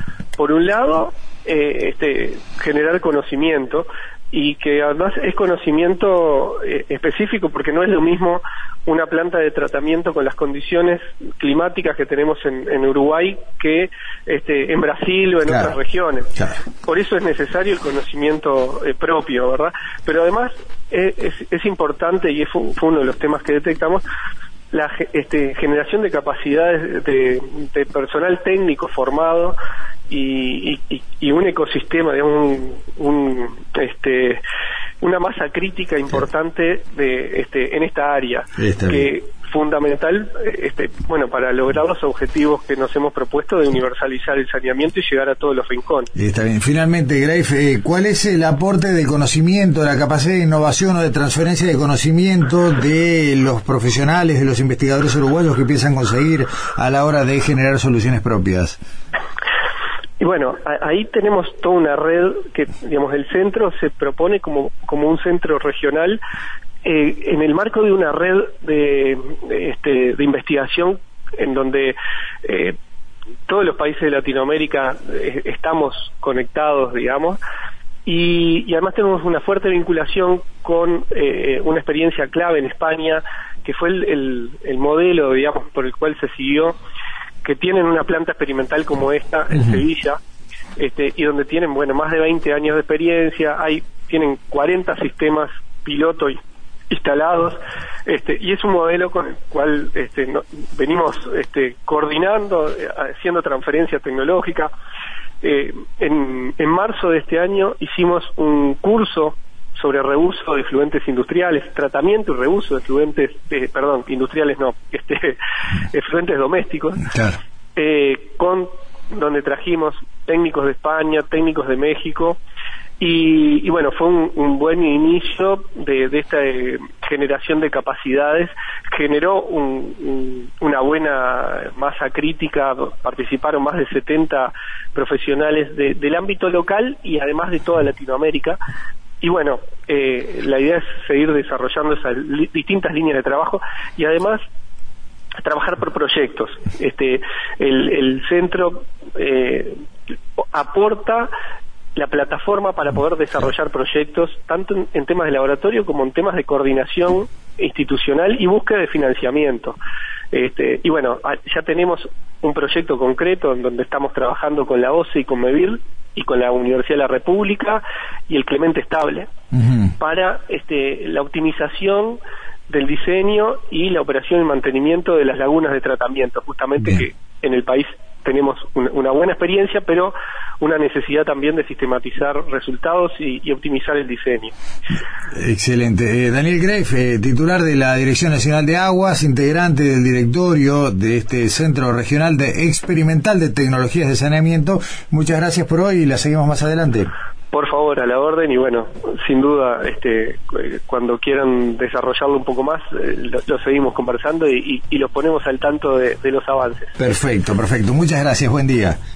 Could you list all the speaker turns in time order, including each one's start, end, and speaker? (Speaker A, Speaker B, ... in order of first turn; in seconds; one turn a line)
Speaker A: 0.4-16.3
Speaker A: 16.8-24.0
Speaker A: 24.7-29.5
Speaker A: 30.1-34.4
Speaker A: 35.0-46.1
Speaker B: 38.6-39.1
Speaker B: 46.1-58.8
Speaker A: 60.2-66.2
Speaker A: 66.8-72.8
Speaker A: 73.5-77.4
Speaker A: 78.0-86.7
Speaker A: 87.4-90.2
Speaker A: 90.8-96.4
Speaker A: 96.9-104.7
Speaker A: 105.4-115.4
Speaker A: 115.9-117.1
Speaker B: 117.1-117.4
Speaker A: 117.8-122.4
Speaker A: 123.0-138.6
Speaker A: 139.2-144.4
Speaker A: 145.4-149.8
Speaker A: 150.4-151.3
Speaker A: 151.9-159.8
Speaker A: 160.3-169.3
Speaker B: 169.5-169.9
Speaker A: 170.0-184.5
Speaker B: 185.3-197.1
Speaker A: 197.5-206.9
Speaker B: 207.0-209.0